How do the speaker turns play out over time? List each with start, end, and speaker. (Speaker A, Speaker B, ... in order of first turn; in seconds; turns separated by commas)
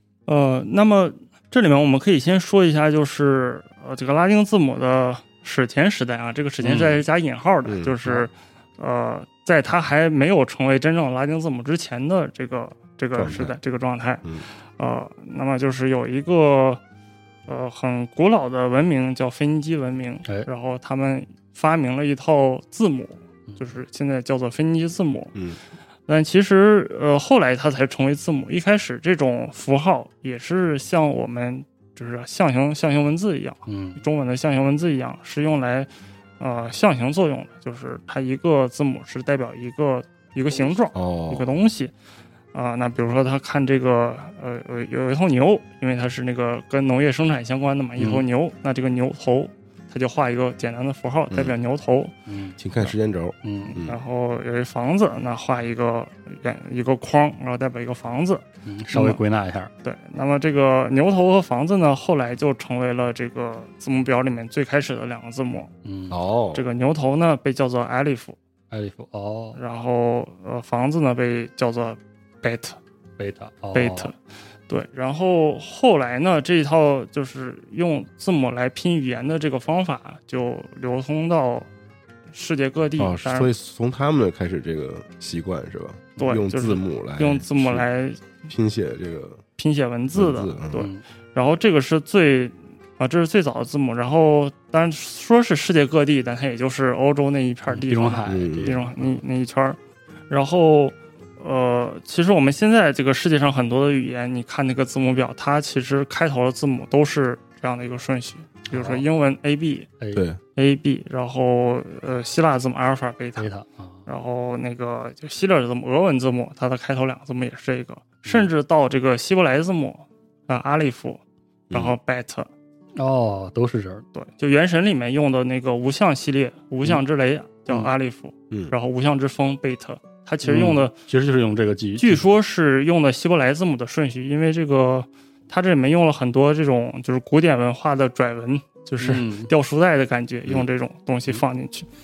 Speaker A: 0.3-14.3, Speaker B: 6.6-7.0, Speaker C: 7.7-8.0, Speaker C: 13.2-13.6, Speaker A: 14.8-16.8, Speaker A: 17.5-25.4, Speaker A: 26.1-35.9, Speaker B: 33.7-34.0, Speaker A: 36.4-41.9, Speaker C: 40.9-41.5, Speaker A: 42.5-52.1, Speaker B: 48.0-48.2, Speaker B: 52.3-52.6, Speaker C: 52.6-54.0, Speaker B: 53.4-53.8, Speaker A: 53.7-59.2, Speaker B: 58.7-59.7, Speaker A: 59.8-65.7, Speaker B: 65.8-66.2, Speaker C: 66.1-66.7, Speaker A: 66.5-68.4, Speaker B: 68.7-69.6, Speaker A: 69.6-72.8, Speaker B: 73.2-74.1, Speaker A: 73.7-74.2, Speaker A: 74.7-81.7, Speaker A: 82.3-83.5, Speaker C: 83.0-87.9, Speaker A: 86.2-88.3, Speaker C: 88.5-89.4, Speaker A: 89.6-99.8, Speaker C: 90.2-90.8, Speaker B: 90.7-91.0, Speaker B: 97.7-99.2, Speaker C: 98.3-98.8, Speaker A: 100.3-109.9, Speaker B: 108.7-109.0, Speaker C: 110.1-110.4, Speaker A: 110.6-113.5, Speaker B: 113.4-114.0, Speaker A: 114.1-122.5, Speaker C: 121.7-122.0, Speaker B: 123.0-124.0, Speaker A: 124.2-130.9, Speaker B: 130.4-132.2, Speaker A: 132.0-141.9, Speaker B: 139.0-139.5